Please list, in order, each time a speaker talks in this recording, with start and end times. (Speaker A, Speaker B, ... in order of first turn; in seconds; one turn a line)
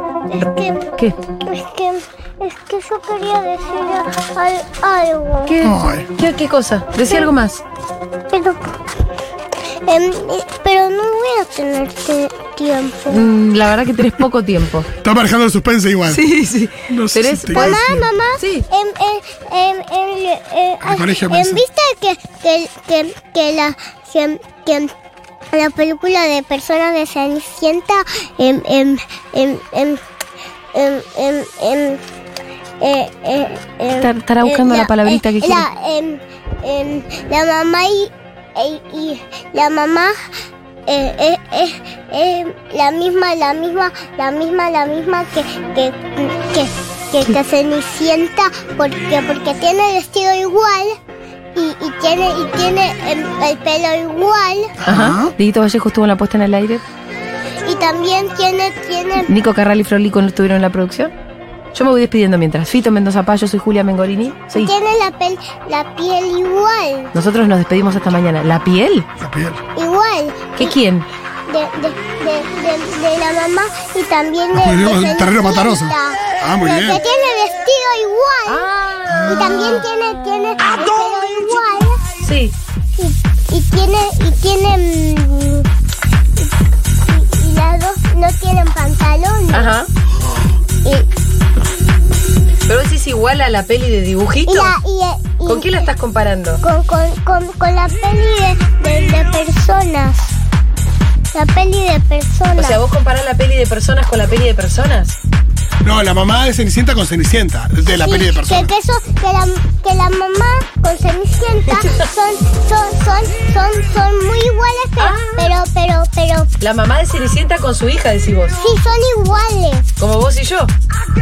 Speaker A: 0.3-0.9
Speaker A: 1.4-5.5
Speaker B: 5.5-7.6
Speaker C: 5.6-6.1
Speaker A: 8.3-8.6
Speaker A: 9.8-13.3
Speaker B: 13.1-14.9
Speaker C: 15.0-16.2
Speaker B: 16.1-17.8
Speaker C: 16.9-18.1
Speaker A: 17.5-24.9
Speaker B: 18.4-18.7
Speaker C: 20.8-21.6
Speaker A: 25.5-30.0
Speaker A: 30.7-32.0
Speaker A: 32.8-40.1
Speaker B: 34.0-35.6
Speaker A: 40.9-51.0
Speaker A: 51.5-54.7
Speaker C: 54.8-55.3
Speaker B: 54.9-56.8
Speaker A: 57.6-59.3
Speaker B: 59.3-61.1
Speaker B: 61.7-64.7
Speaker A: 64.5-67.1
Speaker B: 67.1-69.1
Speaker C: 69.2-69.6
Speaker A: 69.8-70.8
Speaker B: 70.6-71.0
Speaker A: 71.5-78.7
Speaker C: 74.5-77.0
Speaker B: 78.5-79.8
Speaker C: 79.1-79.8
Speaker A: 79.3-82.0
Speaker B: 82.2-82.5
Speaker A: 82.9-85.7
Speaker A: 87.0-89.8
Speaker B: 89.5-89.9
Speaker B: 92.7-94.7
Speaker A: 94.5-95.9
Speaker B: 95.4-96.6
Speaker A: 96.6-100.3
Speaker A: 101.3-102.8
Speaker B: 102.5-105.2
Speaker C: 105.8-108.7
Speaker A: 107.8-116.5
Speaker B: 115.0-115.5
Speaker B: 116.6-118.6
Speaker A: 118.6-119.9
Speaker B: 120.0-120.7